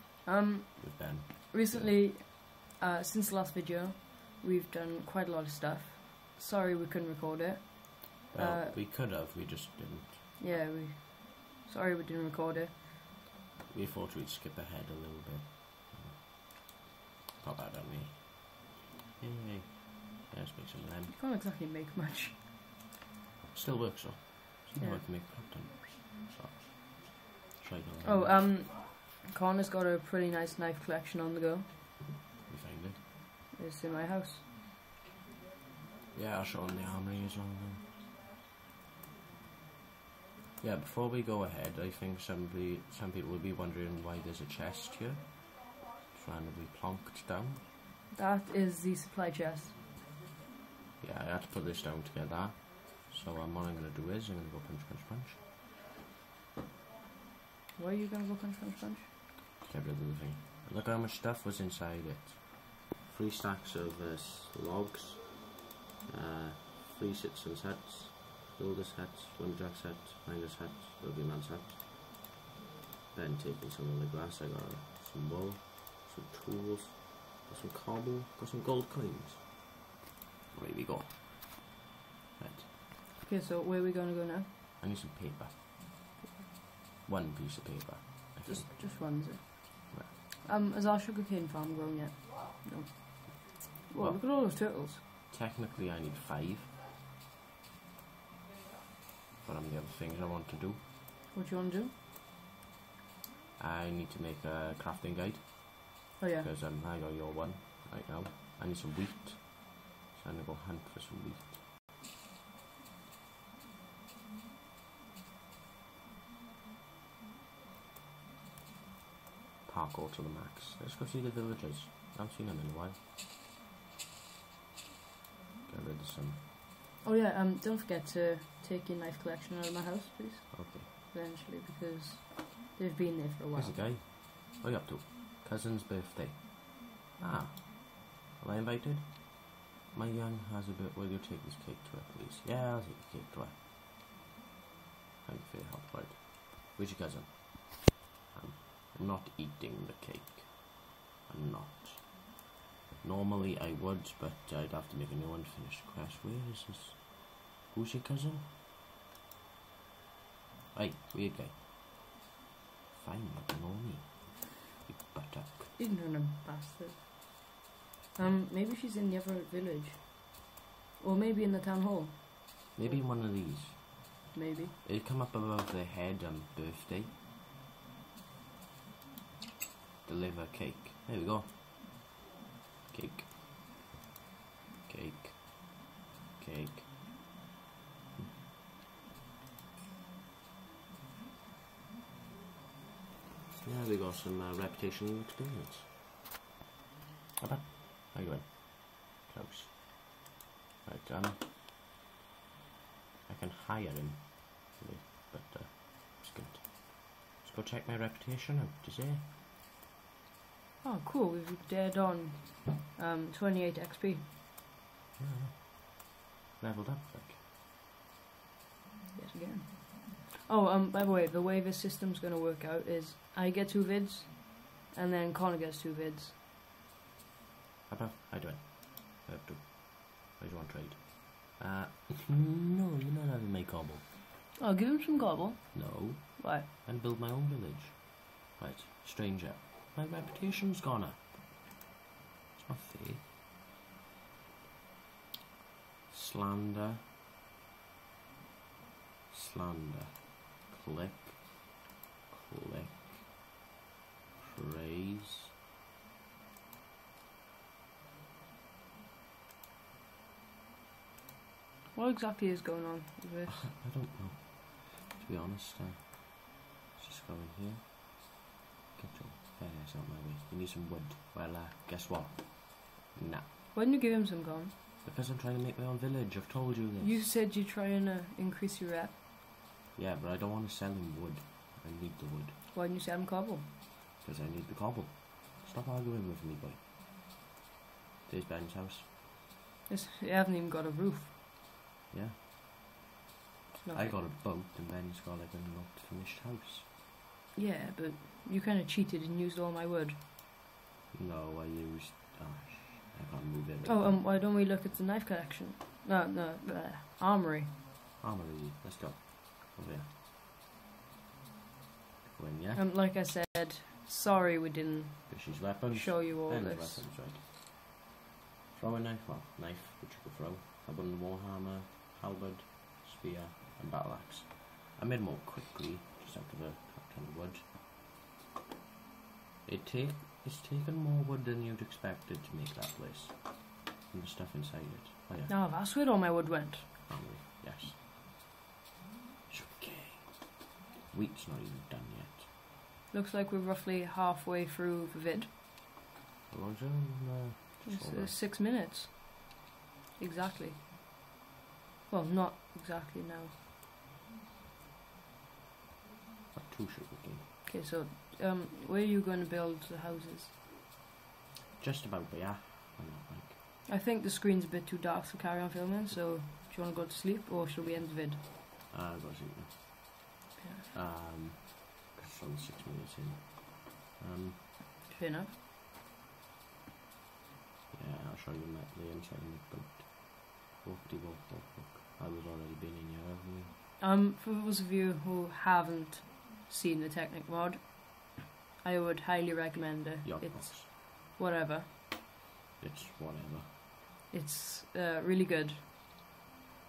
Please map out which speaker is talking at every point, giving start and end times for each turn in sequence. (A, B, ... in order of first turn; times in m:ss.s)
0:00.2-0:08.8 A
0:00.8-0:01.9 B
0:08.3-0:10.2 B
0:10.4-0:12.8 A
0:13.7-0:18.7 B
0:19.2-0:21.1 B
0:21.1-0:22.4 A
0:23.5-0:28.4 B
0:28.0-0:31.7 A
0:32.5-0:33.0 B
0:33.5-0:34.4 A
0:36.1-0:37.9 B
0:40.6-0:47.6 B
0:48.1-0:49.8 A
0:51.0-0:55.4 B
0:57.8-0:59.1 A
0:59.6-1:11.8 B
1:13.1-1:19.6 B
1:20.5-1:21.8 B
1:22.4-1:22.7 B
1:23.2-1:24.5 A
1:24.8-1:25.5 B
1:27.0-1:29.2 B
1:28.4-1:35.0 A
1:34.0-1:36.7 B
1:39.4-1:40.8 B
1:41.3-1:41.9 A
1:43.6-1:51.6 B
1:46.2-1:46.5 A
1:59.7-2:03.0 B
2:05.7-2:06.4 B
2:07.0-2:13.8 A
2:10.5-2:10.9 B
2:13.5-2:23.6 B
2:25.2-2:32.4 B
2:33.0-2:38.5 B
2:40.7-2:41.6 B
2:42.9-2:45.8 B
2:45.8-2:47.0 A
2:48.2-2:53.1 A
2:52.8-2:53.8 B
2:54.3-2:54.7 A
2:54.8-2:57.1 B
3:00.0-3:01.5 B
3:02.9-3:03.3 B
3:04.9-3:06.9 B
3:13.6-3:15.9 B
3:17.4-3:19.8 B
3:20.8-3:21.4 B
3:23.3-3:29.2 B
3:30.8-3:34.2 A
3:35.2-3:37.4 B
3:39.2-3:46.4 A
3:47.9-3:54.1 B
3:54.6-3:56.7 A
3:55.7-4:01.4 B
4:02.6-4:03.2 B
4:06.1-4:07.0 B
4:09.3-4:11.6 B
4:12.3-4:13.3 B
4:14.4-4:15.5 B
4:22.0-4:23.6 A
4:23.6-4:28.4 B
4:29.0-4:33.5 B
4:33.7-4:34.7 A
4:35.0-4:37.3 B
4:37.0-4:39.2 A
4:40.0-4:42.6 B
4:42.7-4:43.7 A
4:44.2-4:46.8 B
4:48.3-4:49.1 B
4:49.9-4:51.3 A
4:52.1-4:52.4 B
4:53.8-4:54.1 A
4:53.9-4:56.8 B
4:57.6-5:00.2 A
5:01.1-5:04.3 B
5:03.8-5:07.7 A
5:08.2-5:10.1 B
5:12.4-5:12.9 B
5:12.7-5:17.1 A
5:15.3-5:17.5 B
5:18.7-5:27.6 B
5:29.7-5:35.5 B
5:35.5-5:36.9 A
5:37.1-5:38.0 B
5:39.5-5:42.4 B
5:43.1-5:45.5 A
5:46.5-5:48.4 B
5:47.8-5:49.6 A
5:50.2-5:50.8 A
5:52.1-5:53.5 A
5:56.5-5:57.4 B
5:57.6-6:00.5 A
6:01.8-6:03.6 B
6:03.9-6:08.4 A
6:08.9-6:10.2 B
6:10.6-6:10.9 A
6:10.9-6:14.6 B
6:15.1-6:15.5 A
6:17.9-6:23.7 B
6:24.0-6:31.9 A
6:30.2-6:30.9 B
6:32.8-6:33.7 B
6:34.3-6:35.8 A